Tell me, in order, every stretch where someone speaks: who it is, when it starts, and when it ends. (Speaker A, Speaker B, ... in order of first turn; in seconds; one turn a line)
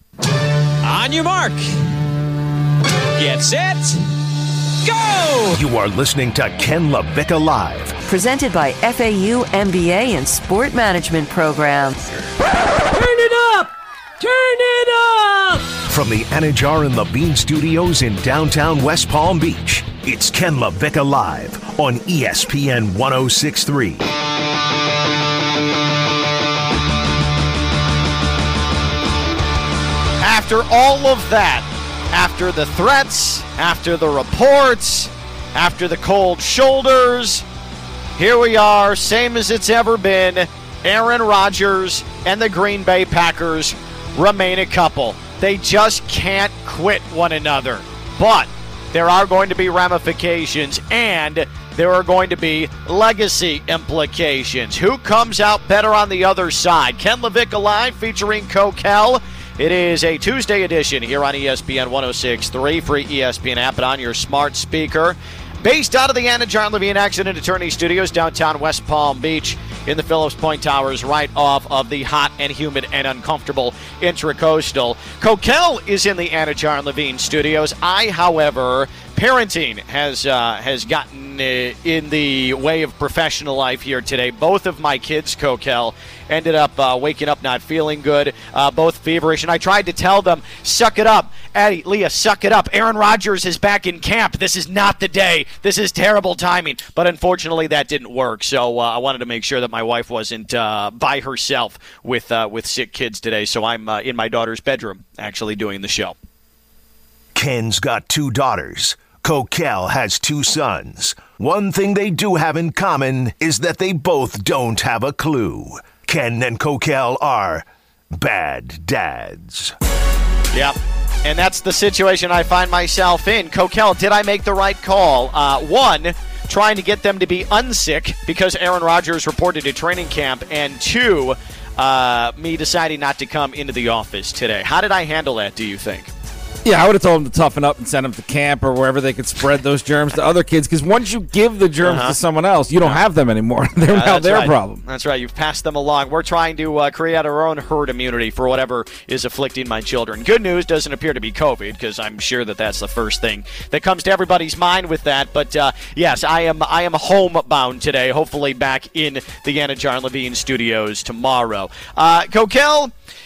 Speaker A: 0.8-1.8
Speaker A: 3.1-4.0
Speaker A: 4.8-5.6
Speaker B: 5.5-8.0
Speaker C: 8.1-12.0
Speaker D: 12.9-15.7
Speaker B: 15.9-24.0
Speaker E: 30.2-37.4
Speaker E: 38.2-106.1
Speaker B: 107.3-119.7
Speaker E: 120.5-136.1
Speaker F: 136.6-144.8
Speaker E: 141.8-142.2
Speaker E: 143.9-162.9